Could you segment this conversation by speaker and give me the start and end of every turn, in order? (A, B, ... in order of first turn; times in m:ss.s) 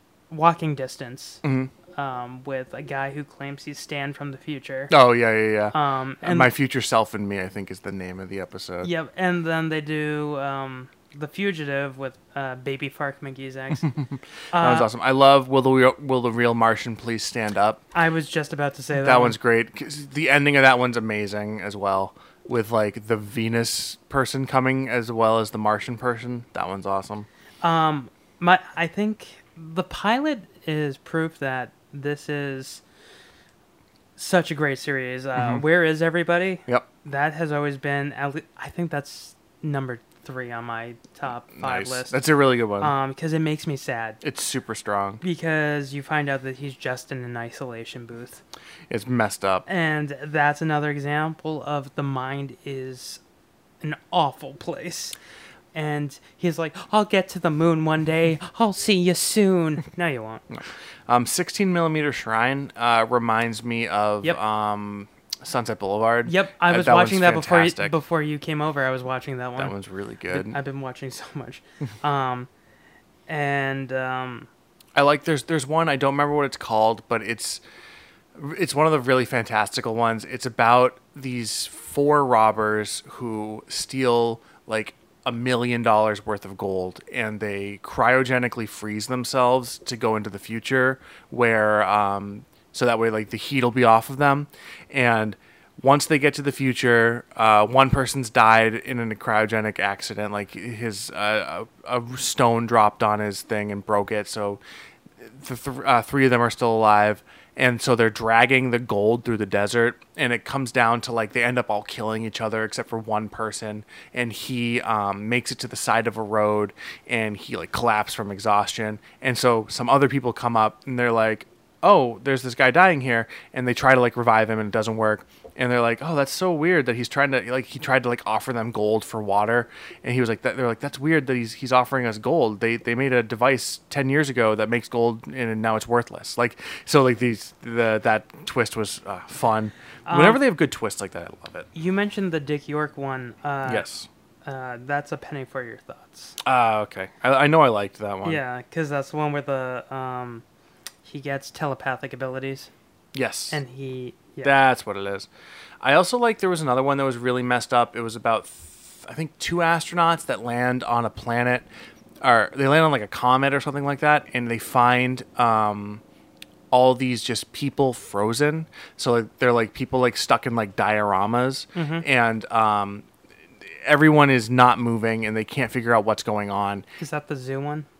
0:00.3-0:01.4 A
0:01.4-0:01.7 B
0:01.9-0:04.9 A
0:04.9-0:08.9 B
0:05.7-0:06.5 A
0:08.8-0:14.0 A
0:13.8-0:17.8 B
0:14.5-0:14.9 A
0:17.9-0:19.4 A
0:19.0-0:27.3 B
0:27.6-0:32.8 A
0:34.2-0:42.2 A
0:35.4-0:35.6 B
0:41.5-0:43.0 B
0:42.8-0:44.2 A
0:44.2-0:45.2 B
0:45.2-0:48.4 A
0:48.9-0:49.7 B
0:49.7-0:53.2 A
0:53.8-0:55.2 A
0:55.7-1:00.4 A
1:00.5-1:08.0 B
1:06.2-1:09.7 A
1:09.6-1:10.6 B
1:10.3-1:12.5 A
1:13.3-1:14.5 A
1:15.0-1:17.6 B
1:18.4-1:44.6 B
1:45.2-2:21.7 B
2:20.1-2:20.4 A
2:21.8-2:23.9 A
2:23.7-2:24.1 B
2:24.4-2:26.4 A
2:26.4-2:28.4 B
2:28.2-2:30.4 A
2:31.0-2:32.7 A
2:33.1-2:33.6 B
2:33.5-2:34.5 A
2:34.4-2:35.3 B
2:35.8-2:41.7 B
2:42.2-2:46.0 B
2:46.7-2:53.1 B
2:51.8-2:52.1 A
2:53.7-2:56.9 B
2:57.0-2:57.9 A